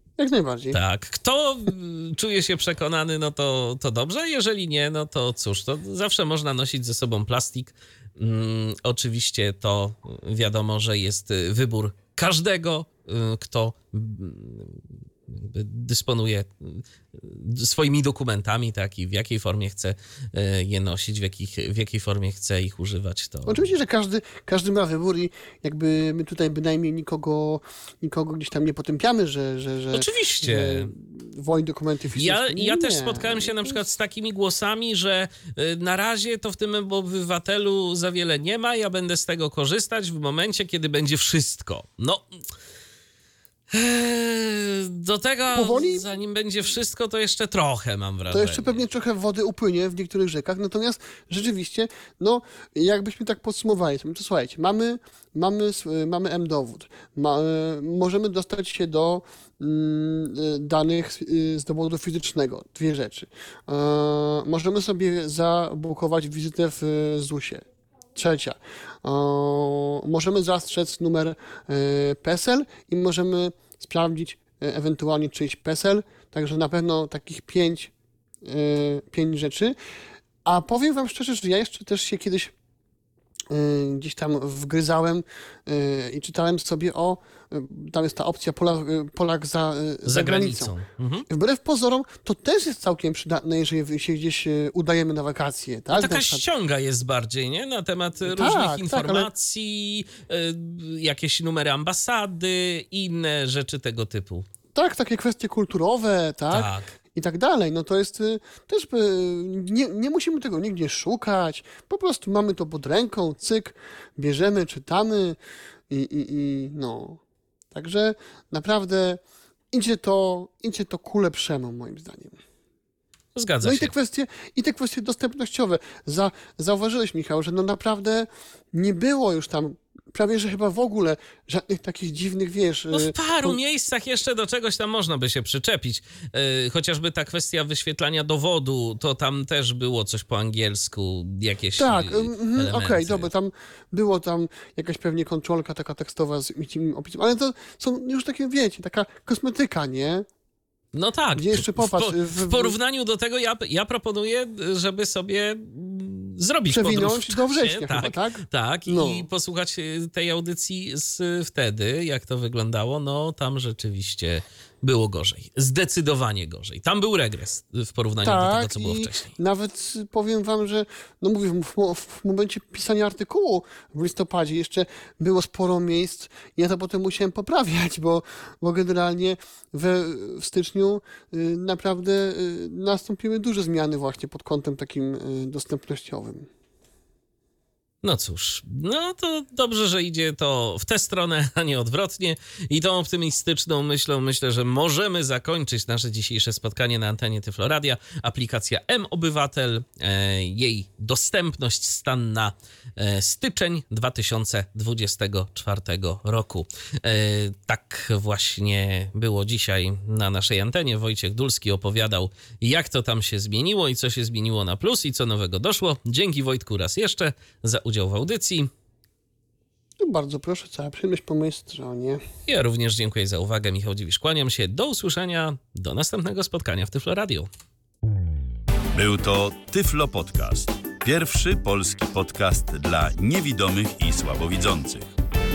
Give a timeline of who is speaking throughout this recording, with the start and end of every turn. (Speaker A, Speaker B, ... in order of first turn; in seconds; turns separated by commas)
Speaker A: 0.2-0.8, Speaker B: 0.7-23.7, Speaker A: 23.5-33.8, Speaker B: 29.9-30.9, Speaker B: 32.2-42.2, Speaker B: 43.7-48.8, Speaker A: 45.5-46.0, Speaker A: 48.3-67.6, Speaker A: 68.2-77.9, Speaker A: 78.4-79.8, Speaker A: 80.5-82.5, Speaker A: 83.5-90.8, Speaker B: 90.1-91.2, Speaker A: 91.3-96.4, Speaker B: 95.9-104.5, Speaker A: 98.3-99.3, Speaker A: 104.8-115.4, Speaker B: 106.5-106.9, Speaker A: 115.9-117.2, Speaker A: 117.7-119.2, Speaker A: 119.7-122.4, Speaker B: 123.3-123.9, Speaker A: 123.6-133.6, Speaker B: 132.9-143.3, Speaker A: 141.8-150.2, Speaker B: 150.9-169.4, Speaker A: 151.4-152.8, Speaker A: 156.7-159.3, Speaker A: 168.2-186.5, Speaker B: 188.0-218.7, Speaker A: 220.0-222.2, Speaker B: 222.5-227.5, Speaker C: 228.9-235.1